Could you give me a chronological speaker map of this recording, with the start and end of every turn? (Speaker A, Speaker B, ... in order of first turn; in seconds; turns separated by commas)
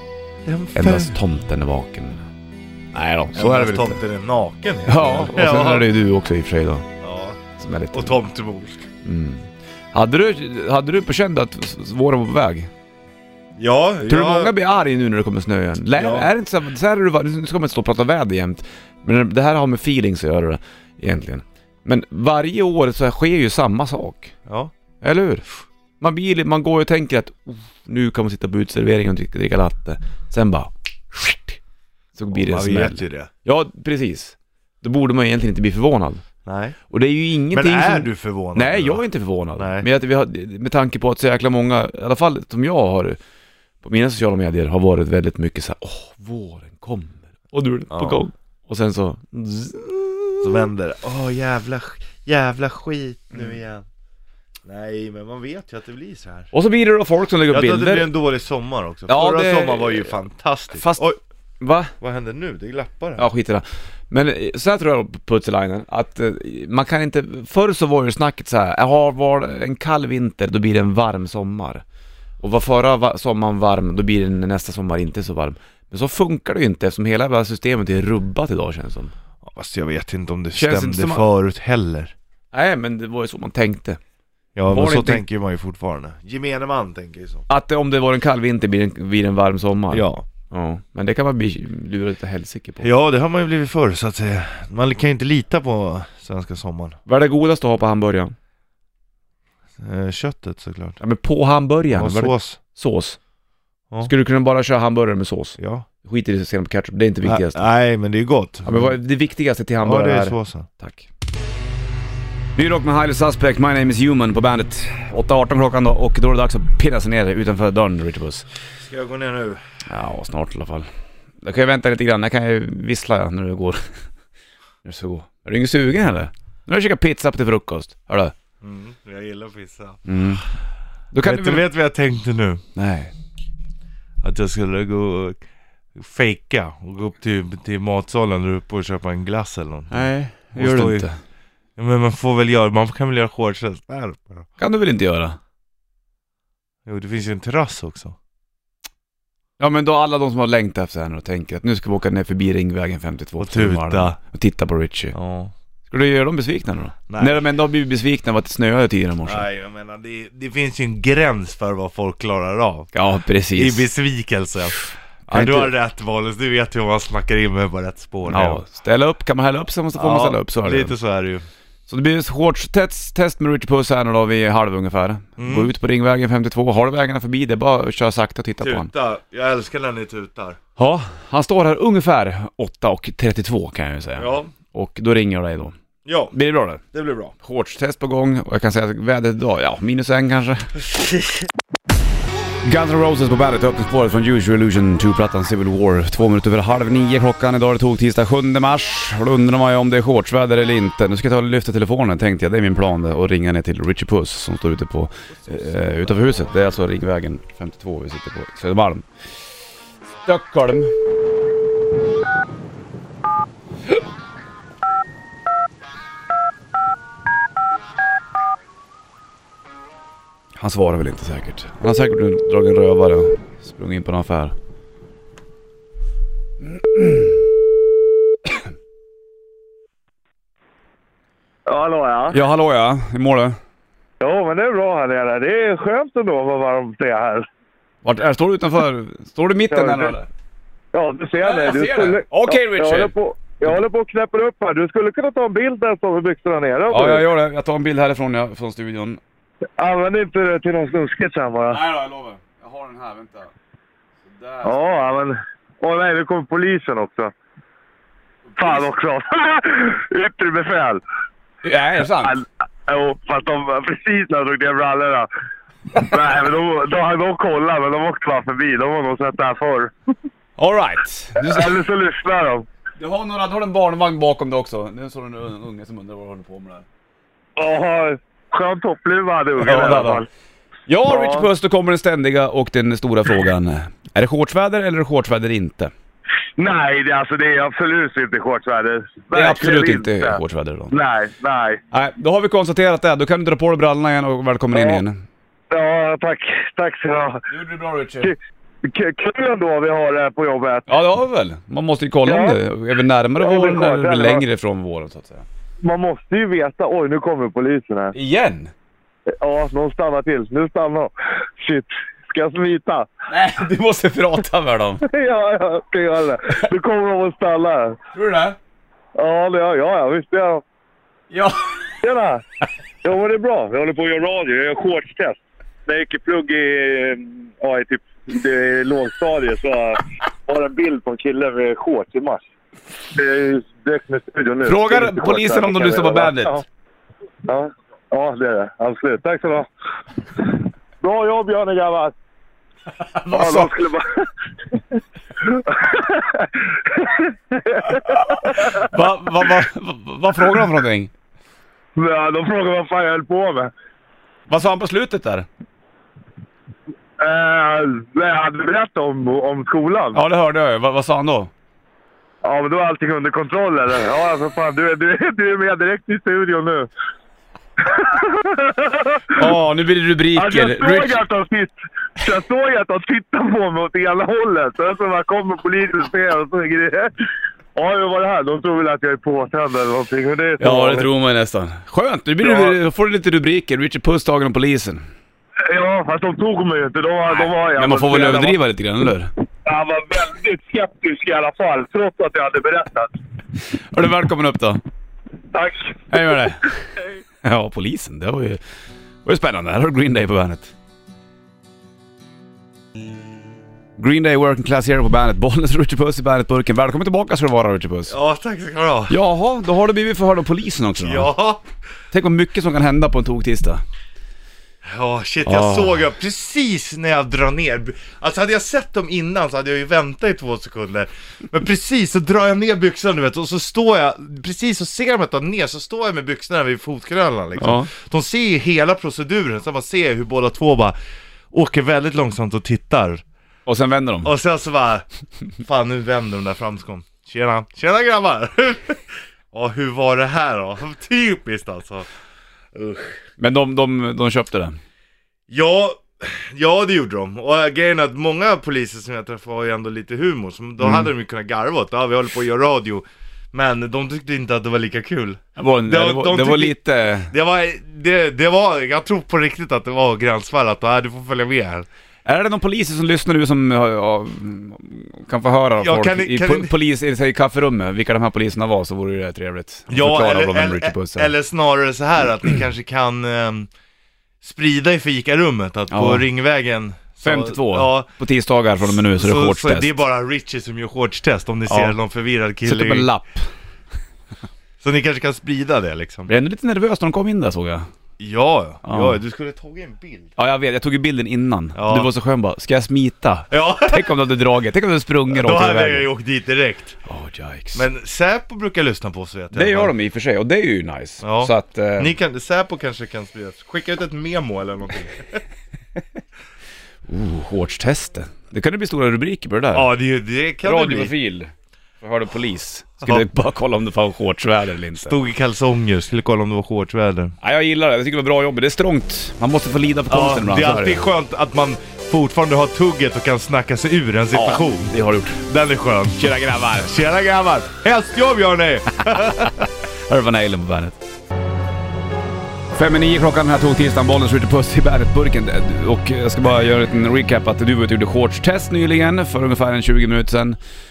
Speaker A: 0.4-1.2, Speaker B: 0.7-2.2, Speaker B: 2.9-4.0, Speaker A: 3.3-5.9, Speaker B: 4.9-6.9, Speaker A: 7.0-7.4, Speaker B: 7.6-8.2, Speaker A: 7.9-8.9, Speaker B: 9.0-12.7, Speaker A: 13.6-14.5, Speaker B: 14.1-24.3, Speaker A: 15.9-16.3, Speaker A: 24.4-24.7, Speaker B: 25.0-25.4, Speaker B: 26.0-31.6, Speaker B: 32.1-36.2, Speaker A: 32.3-33.3, Speaker A: 36.4-36.8, Speaker B: 36.9-43.2, Speaker A: 37.5-39.0, Speaker A: 39.5-39.9, Speaker B: 43.8-50.5, Speaker A: 47.9-48.2, Speaker A: 50.4-53.8, Speaker A: 54.6-56.5, Speaker B: 56.5-58.1, Speaker A: 57.5-61.2, Speaker B: 59.1-60.1, Speaker B: 60.7-61.9, Speaker A: 62.0-63.3, Speaker B: 63.2-71.8, Speaker B: 72.4-79.1, Speaker A: 79.4-82.1, Speaker B: 80.5-81.3, Speaker B: 82.5-84.0, Speaker A: 84.5-87.5, Speaker B: 84.7-85.2, Speaker B: 87.5-92.9, Speaker A: 89.9-90.2, Speaker A: 92.8-97.0, Speaker B: 97.0-98.3, Speaker A: 99.8-101.0, Speaker B: 101.0-103.2, Speaker A: 101.9-102.6, Speaker B: 104.0-107.6, Speaker A: 105.6-105.8, Speaker A: 107.2-108.9, Speaker B: 108.6-111.1, Speaker A: 109.8-110.7, Speaker B: 112.5-118.4, Speaker A: 118.8-119.6, Speaker B: 119.9-120.9, Speaker B: 121.4-123.8, Speaker B: 124.8-128.3, Speaker A: 128.6-130.1, Speaker B: 130.1-130.4, Speaker B: 131.1-131.7, Speaker A: 131.2-132.6, Speaker B: 132.8-133.1, Speaker A: 134.2-135.4, Speaker A: 135.9-141.1, Speaker B: 139.9-141.2, Speaker A: 141.8-144.5, Speaker B: 144.6-145.4, Speaker A: 146.8-148.2, Speaker B: 149.6-155.2, Speaker A: 153.4-154.2, Speaker A: 155.1-155.5, Speaker B: 155.9-159.4, Speaker A: 157.1-157.4, Speaker A: 159.2-162.9, Speaker B: 162.9-163.9, Speaker A: 163.6-168.6, Speaker B: 165.3-165.7, Speaker B: 168.3-170.9, Speaker A: 170.0-171.4, Speaker B: 171.9-178.9, Speaker A: 175.4-175.7, Speaker A: 178.6-180.6, Speaker B: 180.8-185.8, Speaker A: 184.2-184.5, Speaker A: 186.0-187.3, Speaker B: 186.3-186.8, Speaker B: 187.4-190.7, Speaker A: 190.8-191.5, Speaker B: 192.6-209.0, Speaker B: 210.2-210.9, Speaker B: 220.6-224.5, Speaker B: 226.6-227.3, Speaker C: 231.7-232.4, Speaker B: 232.3-233.6, Speaker C: 234.2-237.5, Speaker B: 238.0-240.3, Speaker C: 239.7-240.1, Speaker C: 240.9-247.2, Speaker B: 241.4-243.8, Speaker B: 246.9-249.2, Speaker C: 249.8-251.8, Speaker B: 251.7-253.5, Speaker B: 254.2-254.8, Speaker C: 254.6-257.3, Speaker B: 258.5-258.9, Speaker C: 258.6-261.0, Speaker B: 261.6-262.3, Speaker C: 262.2-265.3, Speaker C: 265.9-269.9, Speaker B: 270.6-271.8, Speaker C: 271.4-272.6, Speaker B: 273.0-276.8, Speaker C: 277.6-280.2, Speaker B: 279.6-280.2, Speaker B: 280.9-285.9, Speaker C: 281.1-281.4, Speaker C: 286.6-290.4, Speaker B: 289.3-290.9, Speaker C: 290.9-291.8, Speaker B: 291.9-295.2, Speaker C: 294.7-295.0, Speaker C: 295.7-297.4, Speaker B: 297.5-298.3, Speaker C: 298.2-300.9, Speaker B: 300.9-305.4, Speaker C: 302.2-302.6, Speaker C: 303.4-304.4, Speaker C: 305.8-308.1, Speaker B: 308.1-308.7, Speaker C: 309.4-313.1, Speaker B: 313.3-315.0, Speaker C: 315.1-318.0, Speaker B: 318.1-318.6, Speaker C: 319.1-320.6, Speaker B: 321.3-321.8, Speaker C: 322.0-322.4, Speaker C: 323.0-332.4, Speaker C: 333.1-336.6, Speaker B: 334.6-336.6, Speaker C: 337.4-339.7, Speaker C: 340.4-342.1, Speaker B: 343.0-343.8, Speaker C: 343.3-344.8, Speaker C: 345.4-348.9, Speaker B: 347.9-351.1, Speaker C: 351.9-353.7, Speaker B: 354.5-355.4, Speaker C: 357.2-360.2, Speaker B: 360.1-361.5, Speaker C: 362.4-366.9, Speaker C: 367.8-369.5, Speaker B: 369.3-371.2, Speaker C: 370.3-377.1, Speaker C: 377.7-381.1, Speaker B: 380.6-385.0, Speaker C: 382.4-382.8, Speaker C: 385.7-388.6, Speaker B: 387.3-389.3, Speaker C: 389.6-393.1, Speaker B: 393.8-394.8, Speaker C: 395.5-396.0, Speaker B: 396.1-396.8, Speaker B: 397.4-398.6, Speaker B: 399.2-400.7, Speaker B: 404.0-408.1, Speaker A: 408.1-409.2, Speaker B: 409.1-411.3, Speaker A: 411.0-411.6, Speaker B: 412.1-413.8, Speaker A: 414.8-430.9, Speaker B: 415.4-416.0, Speaker B: 427.6-427.9, Speaker A: 431.5-433.2, Speaker B: 433.7-434.3, Speaker A: 434.2-435.0, Speaker A: 435.6-442.1, Speaker A: 442.7-443.2, Speaker B: 443.4-444.8, Speaker A: 445.5-456.8, Speaker B: 450.8-451.1, Speaker B: 455.6-457.3, Speaker A: 457.3-461.9, Speaker B: 462.2-471.3, Speaker A: 465.8-466.7, Speaker A: 469.9-473.7, Speaker A: 474.4-478.1, Speaker B: 475.9-476.2, Speaker B: 477.2-480.0, Speaker A: 478.9-483.1, Speaker B: 481.7-482.0, Speaker B: 482.6-483.5, Speaker A: 484.8-486.3, Speaker B: 486.3-487.9, Speaker A: 488.2-490.3, Speaker B: 488.8-489.2, Speaker B: 490.4-496.1, Speaker A: 491.7-492.1, Speaker A: 493.5-494.2, Speaker A: 495.3-497.0, Speaker B: 497.0-497.9, Speaker A: 497.7-499.9, Speaker B: 499.5-502.1, Speaker A: 501.2-505.4, Speaker B: 507.1-509.9, Speaker A: 509.7-511.1, Speaker B: 510.6-515.2, Speaker A: 515.0-517.3, Speaker B: 517.4-521.0, Speaker A: 520.1-526.2, Speaker B: 524.3-525.4, Speaker B: 526.2-527.0, Speaker A: 526.8-529.7, Speaker B: 529.1-531.0, Speaker B: 532.7-540.6